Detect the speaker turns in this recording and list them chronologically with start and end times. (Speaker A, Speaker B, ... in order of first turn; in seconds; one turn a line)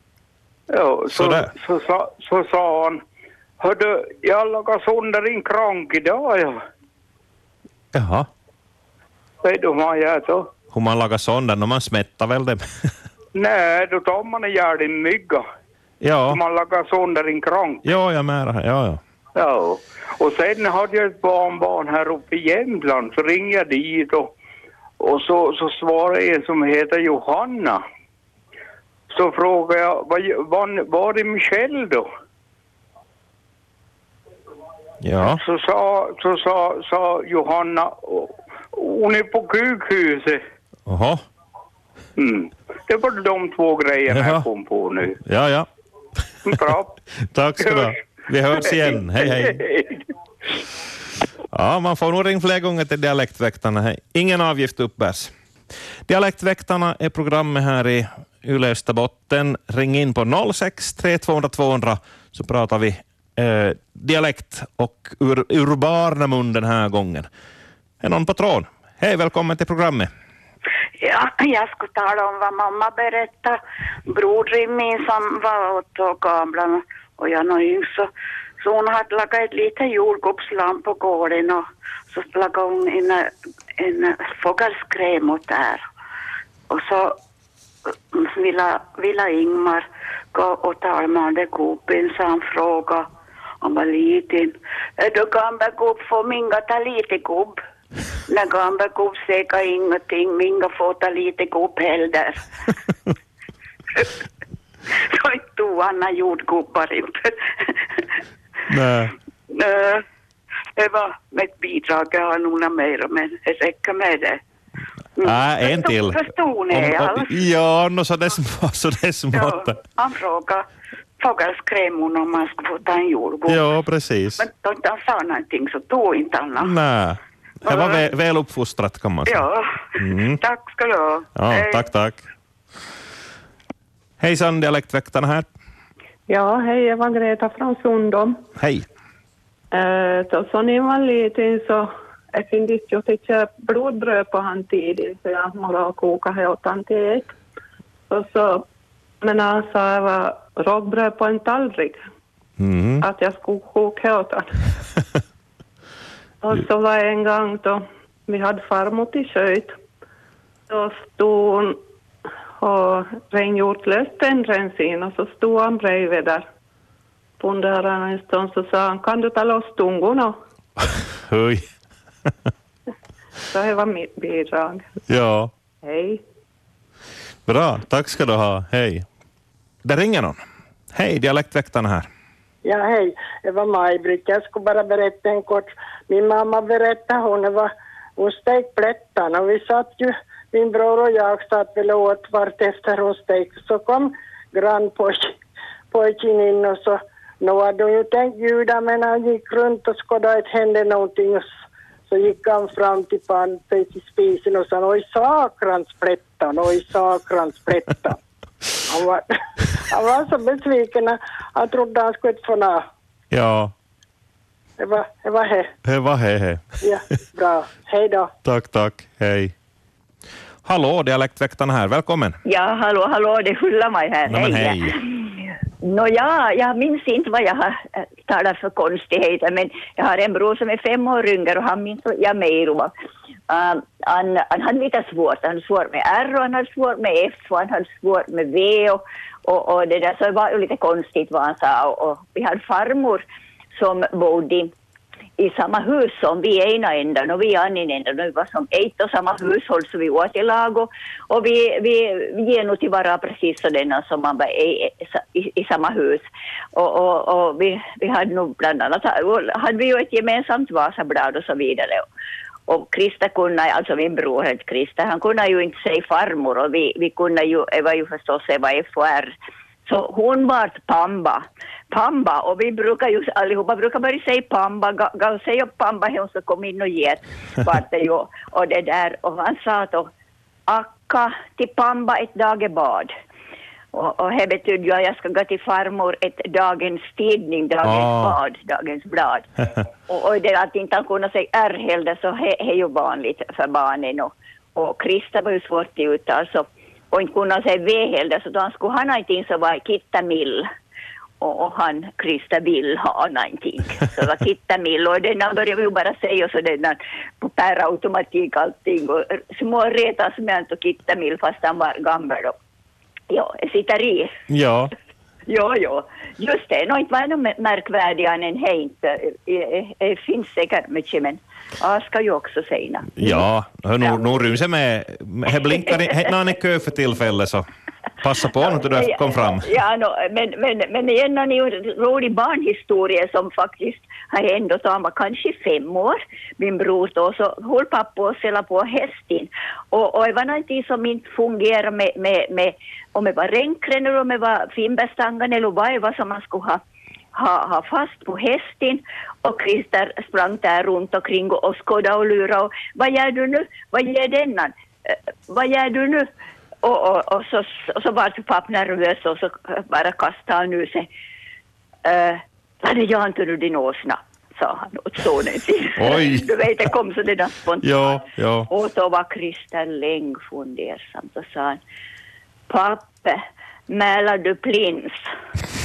Speaker A: 0.7-3.0
Speaker B: 1.1-1.5
Speaker A: 3.6-6.6
Speaker B: 7.9-8.3
Speaker A: 9.4-10.5
Speaker B: 10.7-12.9
Speaker A: 13.3-15.4
Speaker B: 16.0-16.4
Speaker A: 16.3-17.8
Speaker B: 17.8-19.0
Speaker A: 19.3-24.3
Speaker A: 25.0-27.8
Speaker A: 29.1-32.0
Speaker B: 35.0-35.4
Speaker A: 35.2-40.4
Speaker B: 40.9-41.2
Speaker A: 42.2-45.2
Speaker B: 44.1-44.5
Speaker B: 45.2-45.7
Speaker A: 46.5-46.9
Speaker B: 47.3-49.6
Speaker A: 47.6-47.9
Speaker A: 48.9-49.9
Speaker B: 51.5-55.3
Speaker B: 56.1-67.3
Speaker B: 68.0-70.1
Speaker C: 71.0-78.1
Speaker C: 78.6-85.8
Speaker C: 86.7-87.2
Speaker C: 88.1-93.1
Speaker C: 93.6-97.6
Speaker C: 98.3-102.4
Speaker C: 105.0-107.7
Speaker B: 108.7-109.1
Speaker C: 109.5-110.0
Speaker C: 110.8-114.4
Speaker C: 115.2-117.4
Speaker B: 115.2-119.8
Speaker C: 119.3-120.7
Speaker C: 121.2-123.7
Speaker B: 123.5-124.4
Speaker C: 124.4-126.7
Speaker B: 126.6-129.4
Speaker C: 127.7-128.1
Speaker C: 129.2-131.8
Speaker B: 129.9-130.4
Speaker B: 131.3-132.2
Speaker B: 134.2-135.5
Speaker D: 136.3-138.4
Speaker B: 138.6-138.8
Speaker D: 139.7-147.3
Speaker D: 148.1-148.7
Speaker D: 149.2-152.1
Speaker B: 152.6-153.1
Speaker D: 153.0-154.5
Speaker D: 156.4-159.8
Speaker D: 160.7-161.8
Speaker D: 162.6-166.4
Speaker D: 167.4-170.4
Speaker B: 171.3-171.6
Speaker D: 173.5-174.9
Speaker B: 175.1-175.5
Speaker D: 175.8-176.2
Speaker B: 177.5-179.0
Speaker B: 179.8-180.4
Speaker B: 180.9-182.1
Speaker E: 182.6-195.3
Speaker E: 195.9-201.5
Speaker E: 202.1-208.2
Speaker E: 208.9-209.2
Speaker E: 209.9-212.8
Speaker B: 213.3-213.7
Speaker E: 214.8-215.7
Speaker B: 215.8-216.6
Speaker E: 216.8-218.3
Speaker B: 218.4-219.5
Speaker B: 220.6-222.3
Speaker F: 222.4-225.3
Speaker B: 224.3-225.0
Speaker F: 225.8-232.9
Speaker F: 233.5-243.2
Speaker F: 243.7-244.7
Speaker F: 245.4-262.1
Speaker F: 262.7-269.3
Speaker F: 269.9-280.1
Speaker F: 280.7-283.1
Speaker F: 283.9-289.5
Speaker B: 287.8-288.4
Speaker F: 290.1-300.7
Speaker F: 301.4-312.5
Speaker F: 313.3-314.3
Speaker B: 314.5-314.9
Speaker F: 315.5-323.4
Speaker B: 323.1-327.6
Speaker B: 328.2-329.6
Speaker F: 328.9-346.8
Speaker F: 347.3-356.3
Speaker F: 356.8-361.1
Speaker F: 362.0-371.8
Speaker B: 366.0-366.5
Speaker B: 367.8-368.7
Speaker F: 372.7-375.2